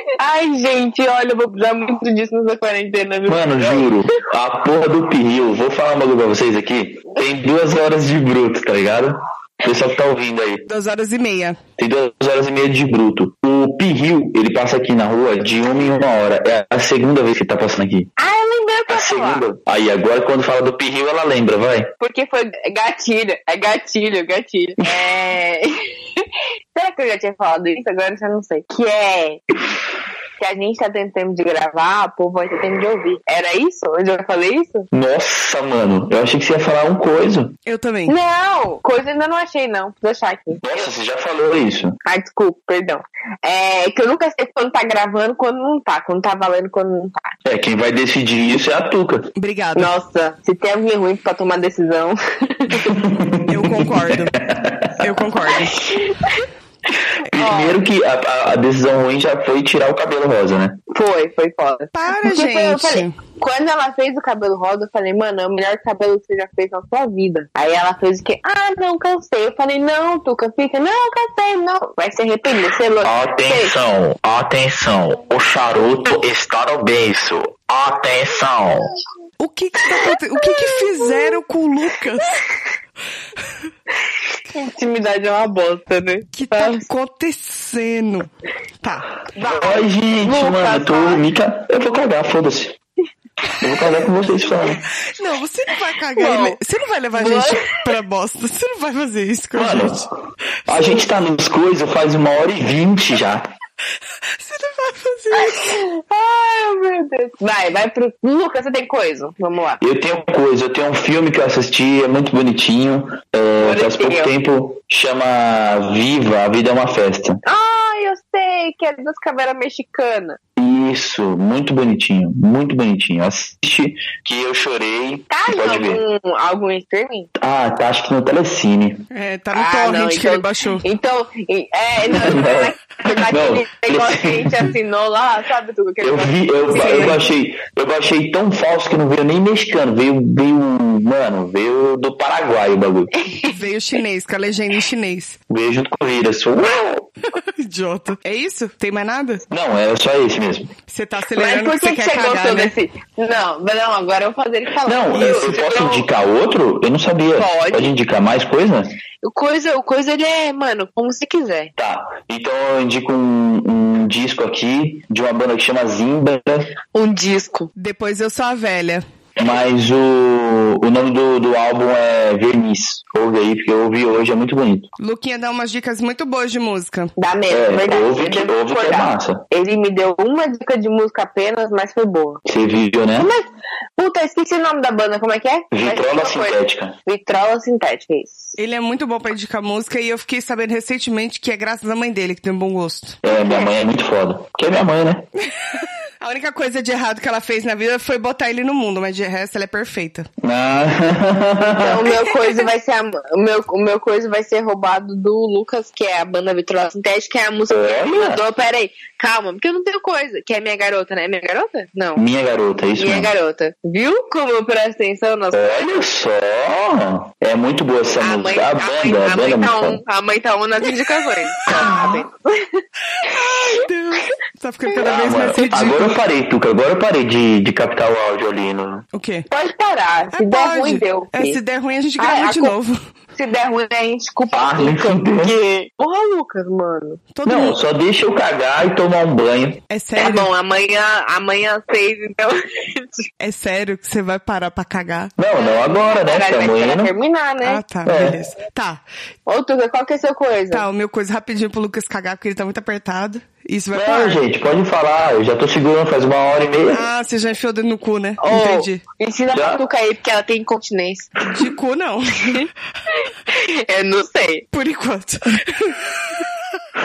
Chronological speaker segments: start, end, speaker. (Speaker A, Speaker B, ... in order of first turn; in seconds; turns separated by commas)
Speaker A: 0.2-4.0, Speaker B: 3.3-10.7, Speaker C: 10.7-11.6, Speaker B: 11.8-18.1, Speaker A: 18.2-19.4, Speaker B: 18.9-21.9, Speaker A: 22.0-29.4, Speaker A: 30.4-34.9, Speaker B: 34.9-37.5, Speaker C: 37.7-38.1, Speaker A: 38.1-40.6, Speaker B: 40.6-42.0, Speaker A: 42.0-47.4, Speaker B: 47.5-49.3, Speaker C: 49.4-49.9, Speaker A: 49.8-53.0, Speaker B: 52.7-55.1, Speaker C: 53.5-54.4, Speaker C: 55.0-55.9, Speaker A: 55.8-56.4, Speaker B: 57.3-60.8, Speaker A: 57.3-57.8, Speaker A: 60.9-73.8, Speaker C: 61.9-63.2, Speaker B: 73.0-78.9, Speaker C: 79.4-82.5, Speaker A: 84.5-86.9, Speaker C: 86.3-88.3, Speaker C: 88.8-89.1, Speaker A: 89.3-91.2, Speaker B: 89.4-92.8, Speaker B: 93.6-94.8, Speaker C: 95.0-100.1, Speaker A: 96.2-96.6, Speaker A: 97.1-97.9, Speaker B: 99.5-100.1, Speaker B: 100.7-103.5, Speaker C: 104.4-105.8, Speaker A: 105.4-109.8, Speaker B: 109.8-117.4, Speaker A: 113.6-114.3, Speaker A: 117.5-120.4, Speaker B: 120.6-126.0, Speaker A: 125.3-127.3, Speaker B: 127.4-129.1, Speaker C: 129.1-130.8, Speaker A: 129.5-137.2, Speaker B: 132.1-134.7, Speaker B: 136.0-143.1, Speaker C: 136.7-137.2, Speaker A: 143.2-143.6, Speaker C: 143.5-145.4, Speaker B: 145.5-147.1, Speaker C: 147.3-149.4, Speaker B: 149.5-150.7, Speaker C: 150.9-152.7, Speaker A: 151.3-156.1, Speaker B: 154.8-159.0, Speaker C: 155.1-155.6, Speaker A: 157.3-157.9, Speaker A: 159.2-161.7, Speaker B: 161.8-166.8, Speaker A: 166.9-167.7, Speaker C: 167.8-169.0, Speaker B: 169.4-174.9, Speaker C: 175.0-177.1, Speaker A: 177.2-182.4, Speaker B: 177.5-179.4, Speaker B: 182.5-183.3, Speaker A: 183.2-183.4, Speaker A: 184.0-188.6, Speaker B: 185.7-186.9, Speaker C: 188.6-193.2, Speaker B: 193.2-195.3, Speaker A: 193.3-193.7, Speaker C: 196.2-200.3, Speaker B: 200.4-202.1, Speaker A: 201.8-212.2, Speaker C: 202.3-202.6, Speaker B: 207.7-208.4, Speaker B: 212.2-213.3, Speaker A: 213.0-215.9, Speaker B: 215.5-220.0, Speaker A: 218.2-222.8, Speaker B: 221.7-222.3, Speaker C: 223.2-226.2, Speaker A: 223.4-223.8, Speaker B: 225.0-229.1, Speaker C: 229.1-229.5, Speaker A: 229.5-231.6, Speaker C: 230.3-233.0, Speaker A: 232.2-232.8, Speaker A: 233.3-237.2, Speaker B: 234.5-235.6, Speaker C: 237.3-237.8, Speaker B: 237.4-239.8, Speaker C: 239.9-240.5, Speaker A: 240.2-243.3, Speaker C: 243.4-245.3, Speaker B: 245.4-247.1, Speaker A: 245.6-247.8, Speaker C: 247.6-249.0, Speaker B: 248.1-248.4, Speaker A: 249.5-250.9, Speaker C: 250.7-254.4, Speaker B: 253.9-257.1, Speaker C: 256.9-259.0, Speaker A: 258.4-261.4, Speaker B: 259.5-259.8, Speaker C: 261.5-262.7, Speaker A: 262.5-264.7, Speaker C: 264.7-266.6